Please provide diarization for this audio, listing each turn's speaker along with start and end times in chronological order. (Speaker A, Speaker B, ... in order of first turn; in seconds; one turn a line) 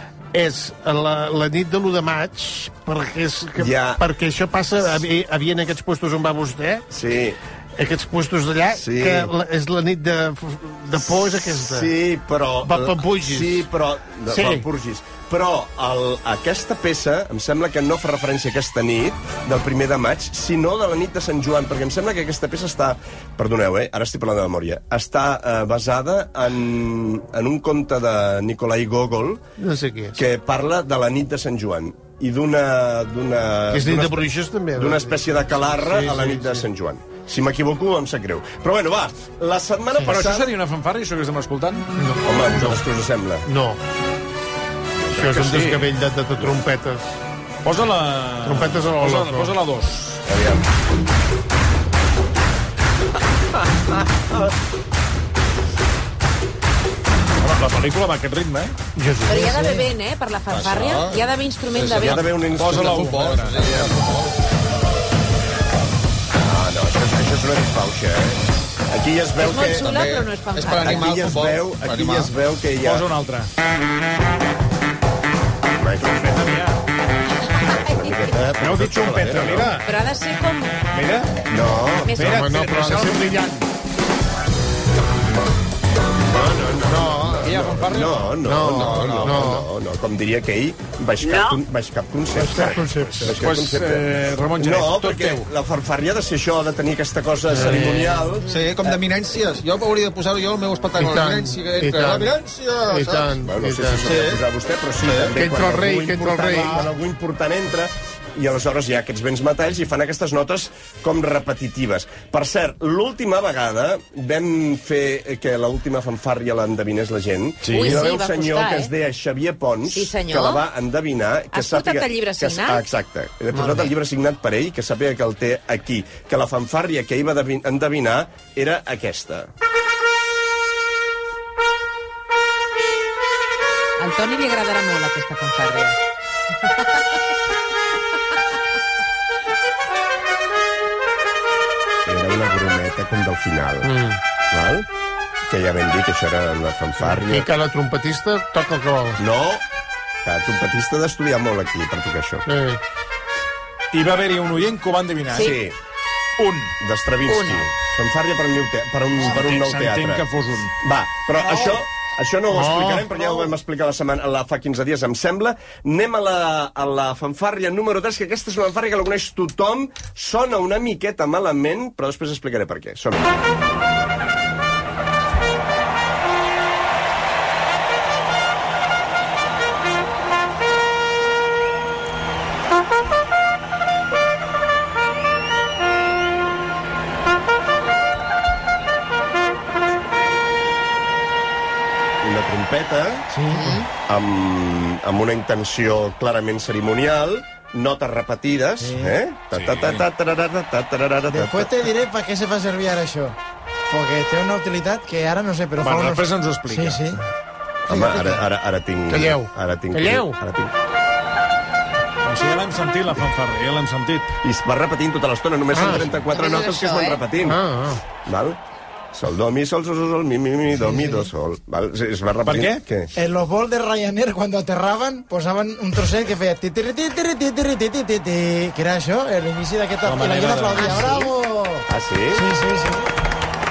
Speaker A: 0.3-6.9
Speaker B: 3.6-4.0
Speaker B: 6.9-7.4
Speaker A: 7.8-11.9
Speaker B: 8.8-9.3
Speaker B: 11.4-29.4
Speaker A: 12.6-13.7
Speaker A: 14.3-14.6
Speaker A: 29.6-30.2
Speaker B: 30.1-40.5
Speaker A: 33.7-35.2
Speaker A: 35.7-36.7
Speaker C: 40.1-41.9
Speaker A: 42.0-42.8
Speaker B: 42.2-43.5
Speaker A: 43.5-43.8
Speaker B: 45.0-45.3
Speaker A: 45.1-47.2
Speaker C: 45.2-45.9
Speaker C: 47.6-50.2
Speaker A: 48.4-49.5
Speaker B: 50.2-50.7
Speaker C: 57.4-58.8
Speaker A: 59.0-59.9
Speaker D: 59.2-62.2
Speaker E: 60.5-62.2
Speaker B: 62.0-63.1
Speaker C: 62.4-63.9
Speaker E: 62.8-64.4
Speaker B: 66.3-69.9
Speaker D: 69.4-71.1
Speaker E: 69.8-72.3
Speaker B: 70.8-73.1
Speaker C: 72.8-73.5
Speaker B: 75.8-76.4
Speaker C: 76.0-76.8
Speaker D: 77.5-78.4
Speaker B: 77.6-79.7
Speaker C: 78.6-79.9
Speaker D: 79.8-80.9
Speaker C: 80.9-81.5
Speaker B: 81.5-82.2
Speaker D: 82.0-82.5
Speaker C: 82.2-83.6
Speaker A: 82.2-83.5
Speaker B: 86.2-99.0
Speaker A: 86.9-87.6
Speaker C: 87.4-88.4
Speaker A: 88.4-89.7
Speaker E: 88.6-89.5
Speaker A: 92.4-93.4
Speaker C: 92.9-95.5
Speaker A: 97.5-98.3
Speaker E: 98.4-103.4
Speaker A: 101.0-102.3
Speaker A: 102.9-104.2
Speaker B: 103.4-129.5
Speaker E: 104.0-104.4
Speaker E: 105.0-105.4
Speaker A: 105.3-106.9
Speaker C: 117.6-118.0
Speaker D: 117.7-118.9
Speaker D: 119.9-120.6
Speaker D: 121.5-122.9
Speaker D: 123.5-123.9
Speaker D: 134.0-136.0
Speaker B: 142.1-143.9
Speaker A: 143.8-144.2
Speaker B: 144.5-144.9
Speaker B: 145.5-147.5
Speaker A: 147.0-149.2
Speaker B: 149.2-149.6
Speaker B: 150.2-152.4
Speaker A: 152.4-152.8
Speaker C: 153.9-155.6
Speaker D: 155.3-155.6
Speaker B: 155.3-155.8
Speaker C: 156.4-156.8
Speaker B: 156.8-160.2
Speaker D: 157.3-157.7
Speaker C: 159.2-160.8
Speaker B: 160.8-173.4
Speaker A: 162.5-163.5
Speaker B: 192.2-193.2
Speaker F: 193.3-193.8
Speaker D: 193.5-193.9
Speaker B: 194.1-201.9
Speaker F: 198.8-199.1
Speaker C: 199.5-200.1
Speaker F: 201.3-203.4
Speaker F: 203.9-207.2
Speaker C: 205.8-207.0
Speaker B: 207.9-210.7
Speaker A: 207.9-208.4
Speaker A: 209.1-210.4
Speaker C: 212.2-214.4
Speaker B: 214.4-217.6
Speaker A: 215.7-216.1
Speaker D: 216.3-217.3
Speaker A: 217.4-218.0
Speaker B: 218.2-218.6
Speaker B: 219.1-223.1
Speaker C: 222.4-222.8
Speaker F: 223.2-233.1
Speaker C: 230.0-231.2
Speaker D: 230.8-231.3
Speaker B: 231.9-232.4